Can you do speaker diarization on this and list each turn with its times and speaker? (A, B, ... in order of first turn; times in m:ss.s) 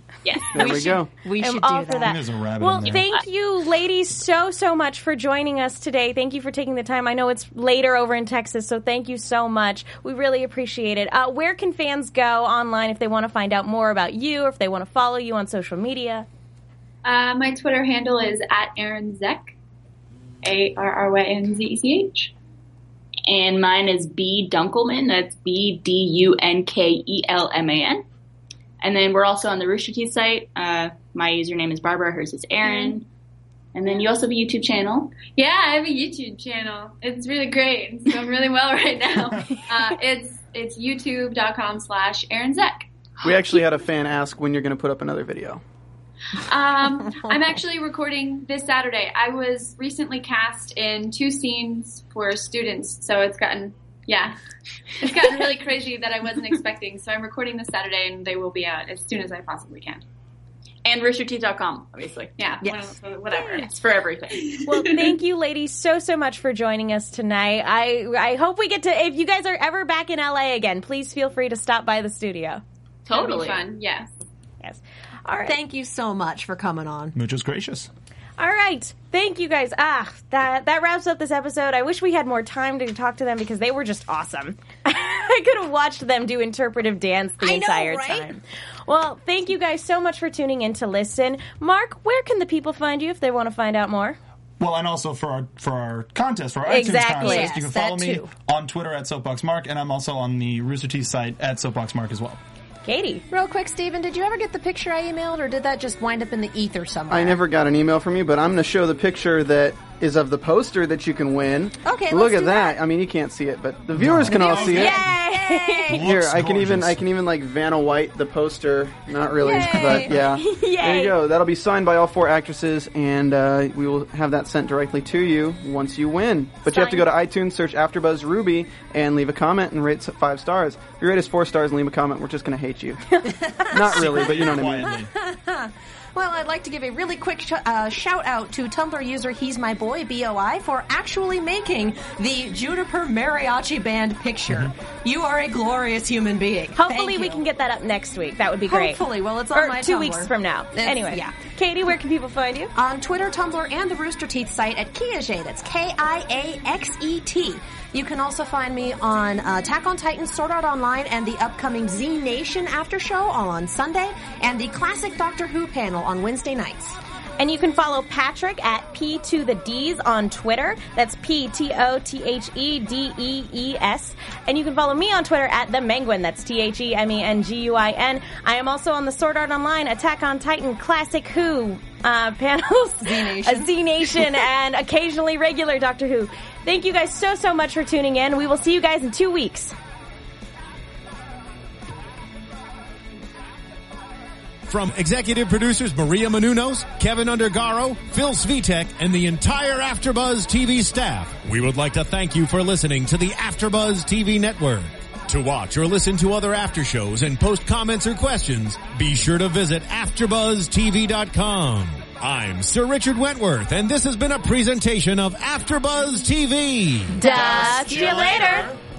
0:00.2-0:00.9 A
0:00.5-0:01.1 B
0:00.6-0:02.2 C
0:01.4-0:16.3 D
0:02.0-0:03.1 E
0:17.0-0:19.5 F
0:20.4-0:22.3 F
0:23.3-0:28.0 A
0:28.8-0:33.1 A
0:32.6-0:33.0 F
0:33.7-0:35.2 A
0:35.3-0:42.9 F
0:43.2-0:43.6 A
0:43.2-0:45.6 B
0:46.3-0:54.4 F
0:55.0-1:00.0 F
1:00.8-1:02.4 A
1:02.4-1:03.8 F
1:02.6-1:03.0 C
1:03.3-1:03.6 D
1:03.5-1:04.6 A
1:04.4-1:05.1 F
1:04.6-1:12.6 D
1:13.0-1:13.6 A
1:13.1-1:14.1 F
1:14.6-1:15.6 D
1:15.4-1:17.2 C
1:17.1-1:17.9 E
1:18.4-1:34.2 D
1:27.4-1:28.3 C
1:34.6-1:42.4 E
1:36.6-1:37.5 D
1:36.8-1:38.3 C
1:42.8-1:43.2 D
1:43.3-1:47.4 C
1:47.1-1:55.0 B
1:51.8-1:52.8 C
1:54.0-1:55.1 E
1:54.3-1:56.1 C
1:54.6-1:55.9 D
1:55.9-1:57.0 E
1:56.0-2:14.9 B
1:59.4-2:01.2 D
1:59.4-2:00.1 C
2:06.6-2:07.0 D
2:13.2-2:27.4 C
2:13.9-2:15.1 E
2:26.8-2:32.7 D
2:28.6-2:31.3 C
2:32.7-2:47.0 C
2:47.4-3:09.7 D
3:03.0-3:04.4 C
3:14.6-3:37.2 G
3:37.1-3:38.7 D
3:37.2-3:38.8 E
3:37.3-3:37.7 C